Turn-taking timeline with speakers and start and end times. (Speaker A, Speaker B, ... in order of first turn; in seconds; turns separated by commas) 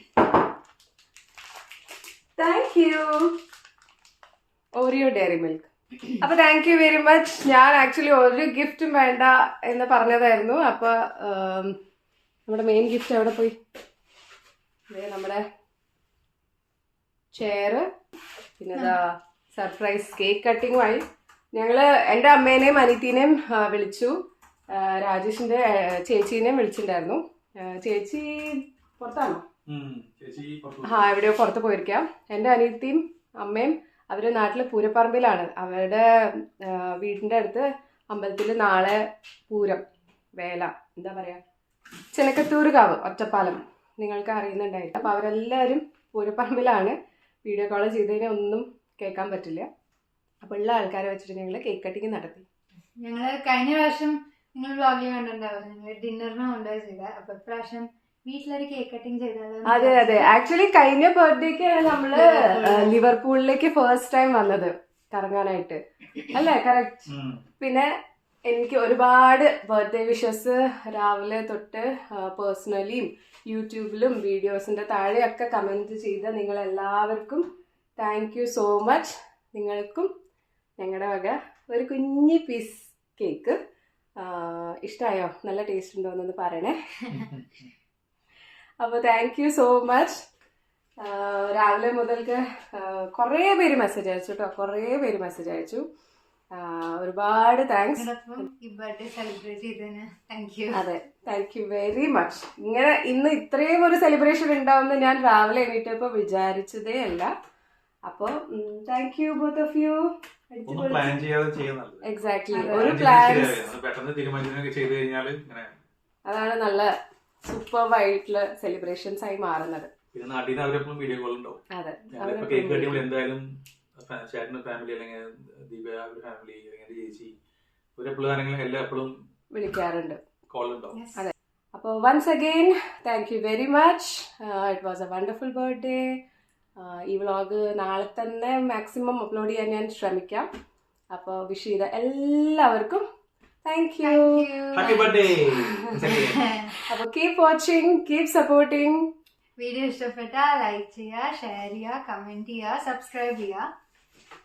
Speaker A: 2.4-3.4, Speaker A: 4.8-11.7, Speaker A: 12.5-13.5, Speaker A: 14.9-15.4, Speaker A: 17.3-17.9, Speaker A: 18.6-21.0, Speaker A: 21.5-24.1, Speaker A: 24.7-29.4, Speaker B: 29.7-31.1, Speaker A: 30.8-39.8, Speaker A: 40.4-41.4, Speaker A: 42.1-49.7, Speaker A: 50.4-52.5, Speaker C: 53.0-60.3, Speaker A: 59.7-67.1, Speaker C: 62.1-63.0, Speaker B: 67.1-67.4, Speaker A: 67.6-67.9, Speaker A: 68.5-80.1, Speaker A: 80.8-83.6, Speaker A: 84.2-87.2, Speaker B: 87.2-87.7, Speaker A: 88.8-90.2, Speaker A: 91.0-95.8, Speaker A: 96.5-98.4, Speaker C: 98.0-100.8, Speaker A: 100.7-107.3, Speaker A: 108.1-111.2, Speaker B: 110.7-115.7, Speaker A: 112.0-113.7, Speaker A: 116.3-116.9, Speaker A: 117.5-119.9, Speaker B: 120.1-121.6, Speaker A: 121.7-123.1, Speaker B: 122.1-123.5, Speaker B: 124.0-127.3, Speaker B: 128.0-129.1, Speaker A: 129.5-130.2, Speaker B: 130.5-131.0, Speaker C: 130.9-131.2, Speaker A: 131.2-136.1, Speaker A: 136.8-140.5, Speaker A: 141.1-143.0, Speaker A: 143.7-144.5, Speaker C: 144.0-145.2, Speaker B: 144.7-146.5, Speaker A: 145.6-146.2, Speaker C: 146.0-146.8, Speaker A: 146.8-149.1, Speaker C: 149.6-153.7